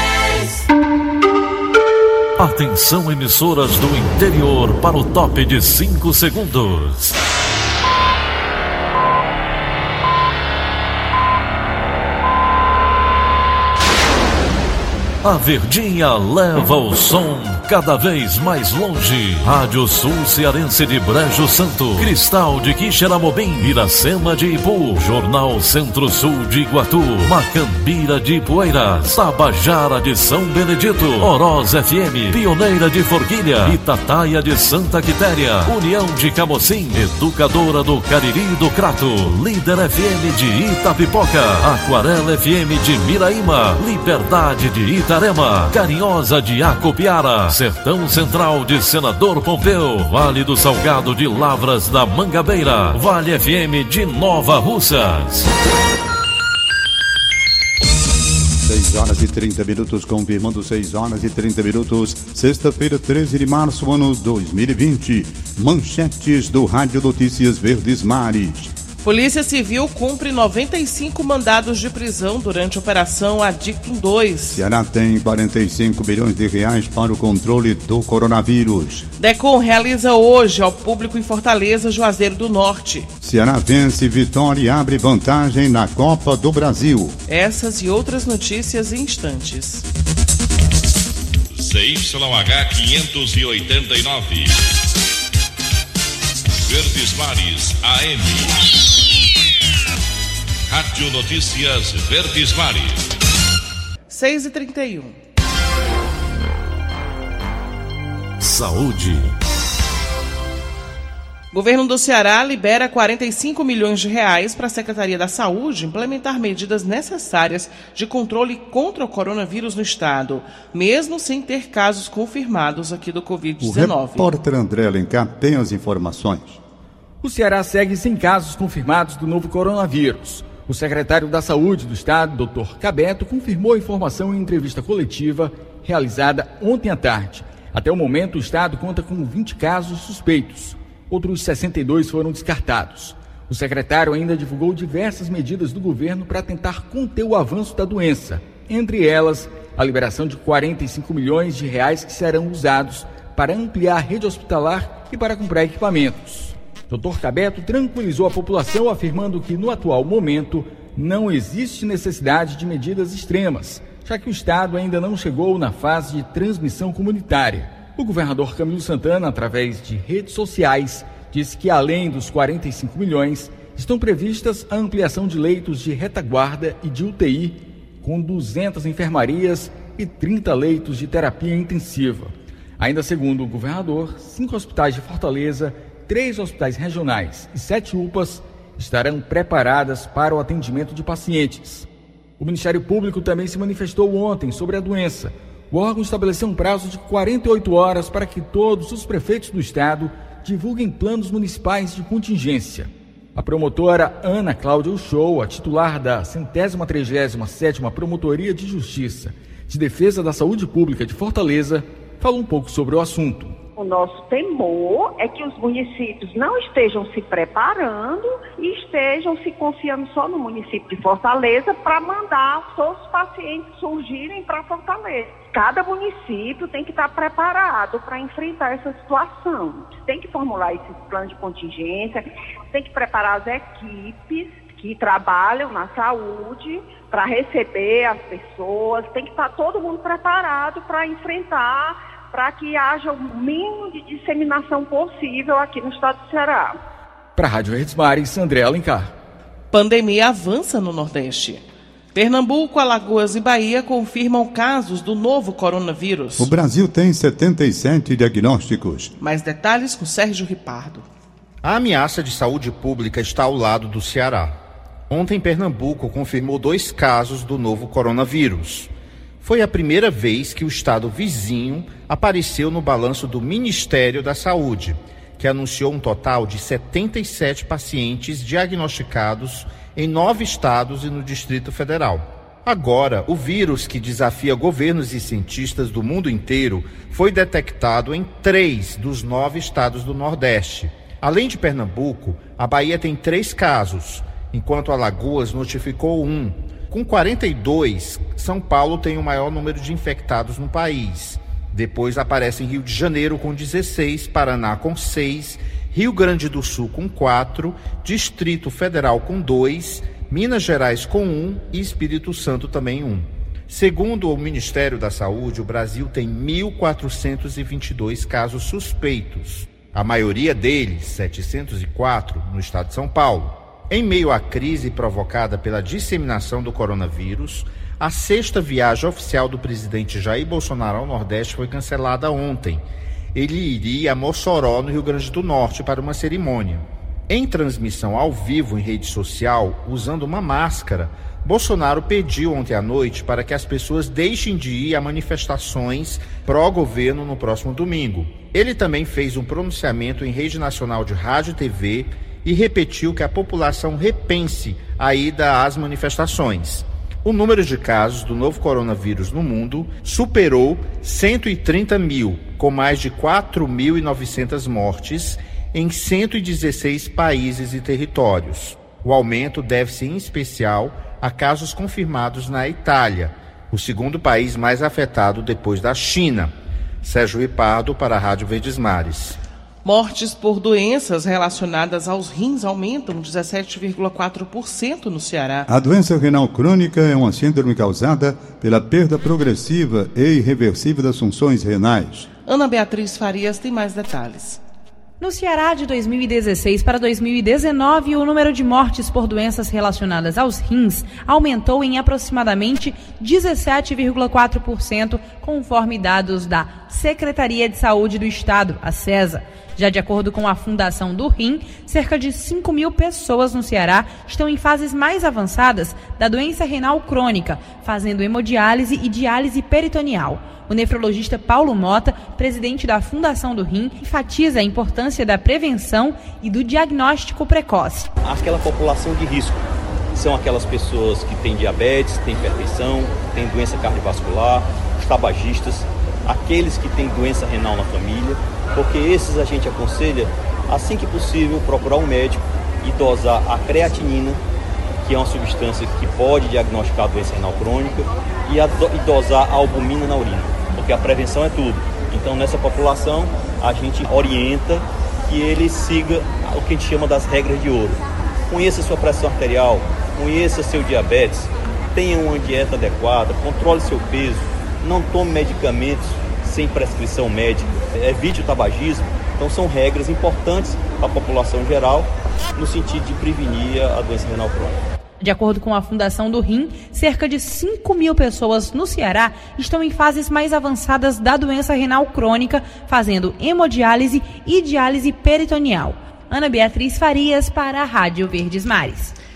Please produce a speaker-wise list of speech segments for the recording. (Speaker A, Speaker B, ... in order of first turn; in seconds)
Speaker A: 2.4-7.1, 15.2-55.5, 108.4-109.3
Speaker B: 58.6-68.7, 74.5-79.0, 83.2-87.2, 123.6-126.6, 256.4-259.1, 385.7-392.3
Speaker C: 69.0-74.6, 79.2-83.1, 87.3-89.8, 104.1-105.2, 111.5-124.3, 249.7-256.5, 259.2-261.1, 379.8-385.7, 392.4-394.6
Speaker D: 91.5-94.5, 96.7-98.6, 100.7-103.0
Speaker E: 127.2-213.6, 247.3-249.1
Speaker F: 213.8-246.8
Speaker G: 261.6-264.6, 265.1-332.8, 333.3-379.4
Speaker H: 395.2-428.1, 475.2-489.1
Speaker I: 428.2-444.4, 445.0-474.8